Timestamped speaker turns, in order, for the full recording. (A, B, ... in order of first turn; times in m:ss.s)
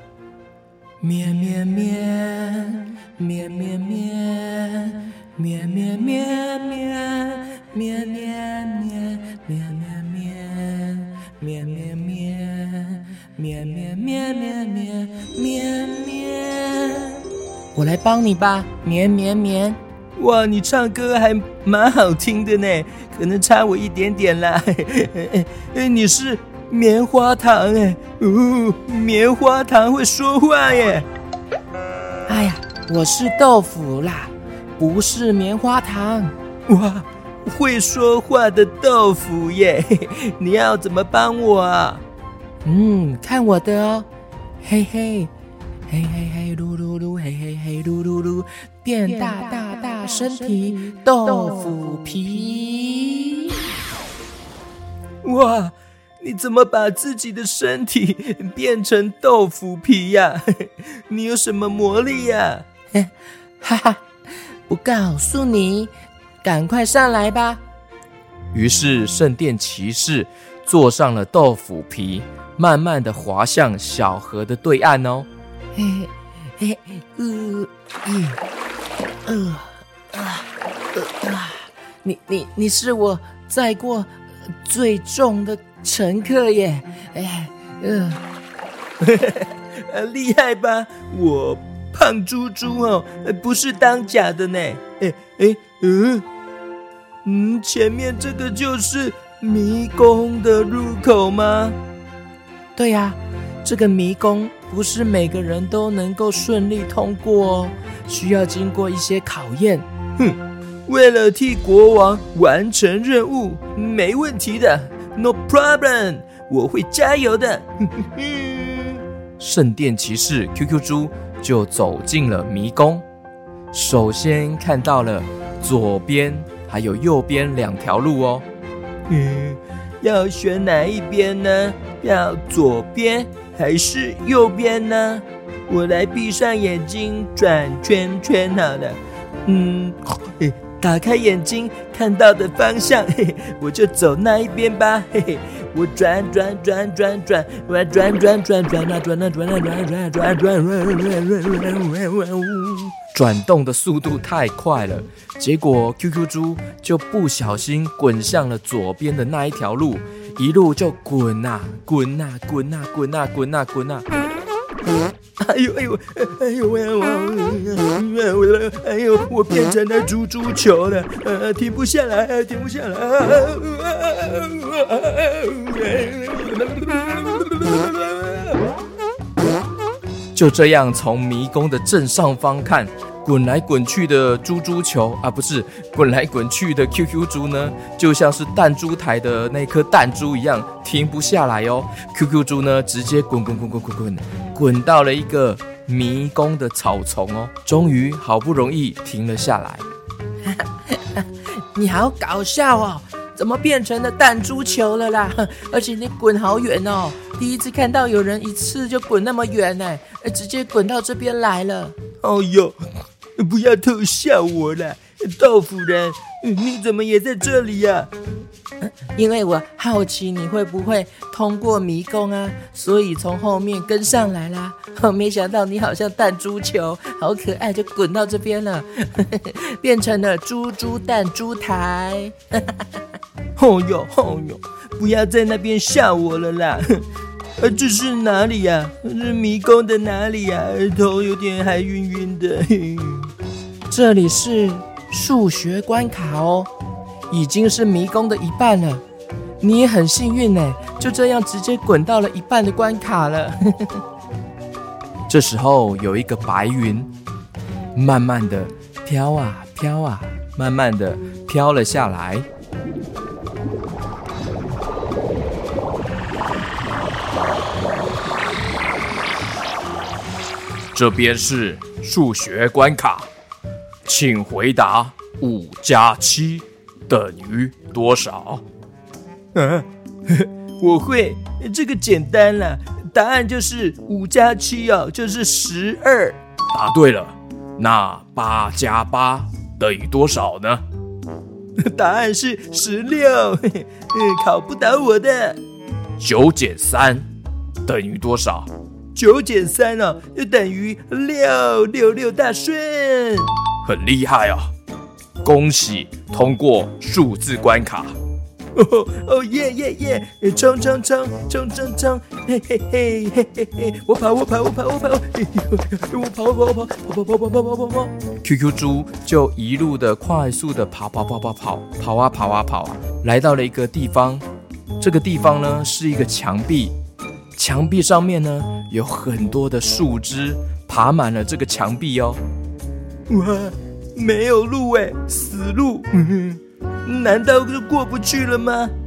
0:01.0-0:03.3 A
0:04.2-0:17.2 A
0:17.8-0:19.8 B
0:20.2-0:31.1 A
0:32.3-0:36.3 B
0:36.7-0:42.0 A
0:42.6-0:44.1 B
0:44.6-0:45.3 B
0:45.9-0:53.6 B
0:55.2-1:02.7 A
1:03.6-1:04.0 B
1:04.7-1:05.9 B
1:06.4-1:07.6 B
1:08.5-1:15.3 C
1:15.8-1:18.4 B
1:19.2-1:24.1 B
1:24.6-1:28.2 B
1:29.0-1:36.2 A
1:37.2-1:41.8 A
1:42.8-1:49.8 B
1:50.2-1:59.0 A
1:59.4-2:03.0 C
2:03.7-2:08.4 C
2:09.1-2:33.0 A
2:33.1-2:44.1 C
2:45.4-2:58.6 A
3:00.3-3:19.8 C
3:21.0-3:31.9 B
3:32.2-3:32.8 A
3:33.4-3:38.1 A
3:39.2-3:52.8 B
3:53.6-3:57.0 A
3:57.6-4:03.3 A
4:03.9-4:06.7 B
4:07.3-4:09.0 B
4:09.6-4:13.5 B
4:15.3-4:17.1 C
4:17.9-4:22.4 C
4:30.9-4:33.3 C
4:34.1-4:38.6 C
4:39.6-4:46.4 A
4:46.7-4:50.8 C
4:51.8-4:55.6 A
4:56.2-4:57.3 C
4:57.8-4:58.7 C
4:59.2-5:03.5 A
5:03.8-5:04.7 C
5:05.4-5:08.2 C
5:08.8-5:18.1 A
5:18.4-5:24.4 C
5:25.0-5:26.9 C
5:27.6-5:32.4 C
5:33.3-5:38.9 A